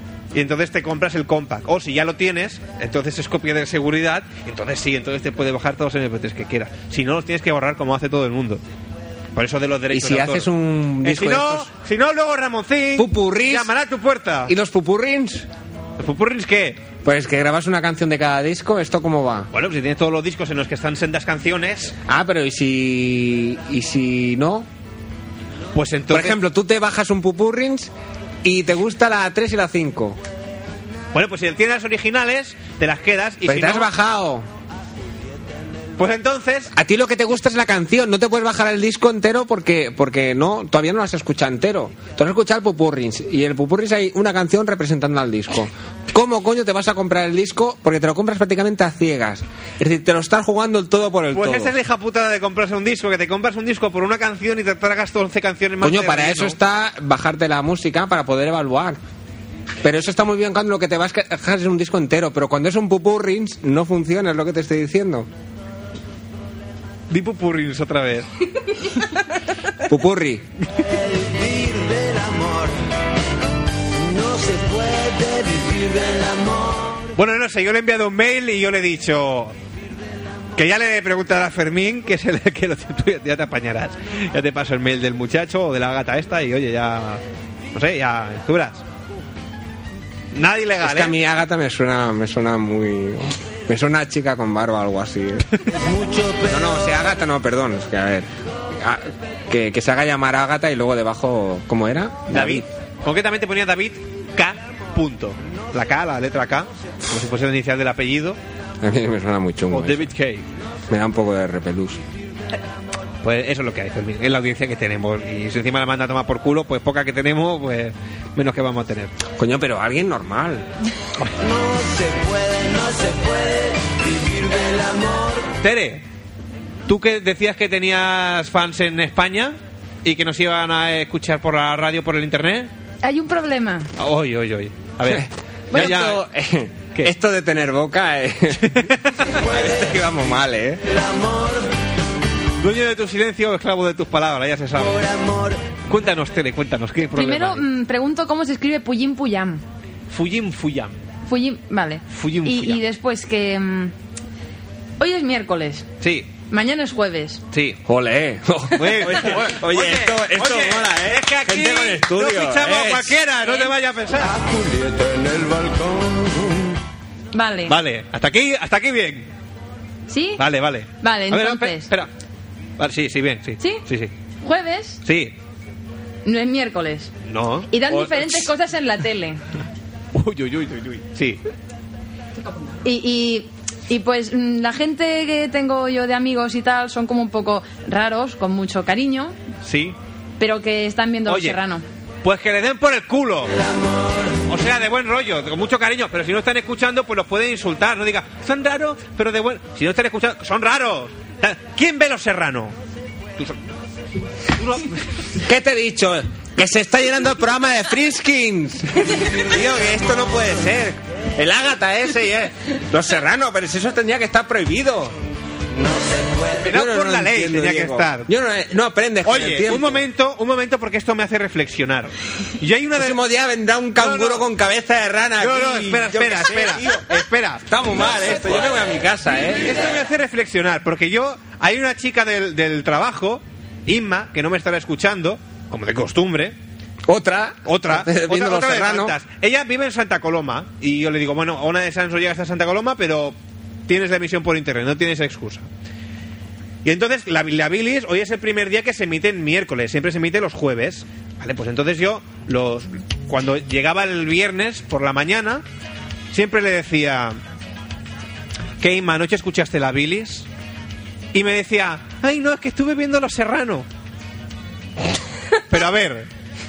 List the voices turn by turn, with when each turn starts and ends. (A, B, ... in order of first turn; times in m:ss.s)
0:00.3-0:08.6 A
0:09.3-0:10.5 A
0:09.9-0:11.7 B
0:11.0-0:14.5 A
0:13.0-0:13.7 B
0:14.5-0:15.5 B
0:16.0-0:16.8 A
0:17.0-0:19.5 B
0:19.5-0:22.0 A
0:22.1-0:24.7 B
0:25.7-0:26.4 A
0:26.1-0:27.9 B
0:28.4-0:30.2 B
0:31.1-0:33.9 A
0:33.4-0:34.5 B
0:36.0-0:36.7 A
0:36.7-0:51.7 B
0:51.3-0:56.6 A
0:55.8-0:59.0 B
0:59.8-1:05.3 B
1:07.1-1:08.3 A
1:09.8-1:10.4 B
1:10.8-1:12.7 C
1:13.9-1:17.0 C
1:17.2-1:19.5 A
1:20.6-1:27.2 A
1:27.7-1:28.8 A
1:30.3-1:31.2 A
1:30.8-1:35.5 B
1:35.7-1:37.2 C
1:36.5-1:42.7 B
1:42.3-1:48.4 A
1:48.8-1:50.0 B
1:49.7-1:50.4 A
1:50.9-1:52.0 B
1:53.2-1:59.1 A
1:59.3-2:00.7 B
2:01.4-2:05.5 C
2:05.6-2:06.0 A
2:06.9-2:12.7 A
2:13.0-2:13.9 D
2:14.0-2:16.2 A
2:15.0-2:20.8 B
2:18.6-2:19.4 A
2:20.9-2:21.6 C
2:22.6-2:25.0 A
2:24.8-2:25.6 C
2:25.9-2:27.6 A
2:27.1-2:29.6 D
2:30.1-2:31.0 A
2:31.2-2:33.9 D
2:32.1-2:32.8 A
2:35.0-2:35.9 D
2:36.0-2:36.3 A
2:36.4-2:37.4 D
2:37.5-2:37.8 A
2:37.8-2:43.2 B
2:38.7-2:44.4 A
2:43.4-2:43.7 D
2:44.2-2:46.7 C
2:47.3-2:47.8 D
2:47.7-2:49.3 A
2:50.1-2:50.4 D
2:50.4-2:52.1 A
2:51.0-2:51.9 D
2:52.8-2:54.1 A
2:53.6-2:53.8 D
2:54.4-2:55.0 D
2:55.0-2:55.3 A
2:56.2-2:57.1 D
2:57.2-2:58.5 A
2:57.7-2:59.4 D
3:00.1-3:01.4 A
3:02.8-3:09.4 D
3:09.6-3:10.0 A
3:10.4-3:11.8 D
3:11.3-3:11.6 A
3:12.2-3:13.5 A
3:14.5-3:22.8 A
3:24.6-3:25.0 A
3:25.4-3:35.2 B
3:29.5-3:30.8 A
3:35.8-3:36.6 C
3:36.6-3:38.3 A
3:36.7-3:40.0 B
3:39.2-3:43.2 A
3:42.9-3:49.9 B
3:44.0-3:44.4 A
3:45.4-3:48.6 A
3:49.6-3:56.5 A
3:57.1-3:59.1 B
3:57.6-4:03.3 A
4:03.9-4:05.6 A
4:06.8-4:15.6 A
4:16.3-4:17.4 A
4:18.8-4:20.5 A
4:21.3-4:23.8 A
4:25.7-4:26.3 A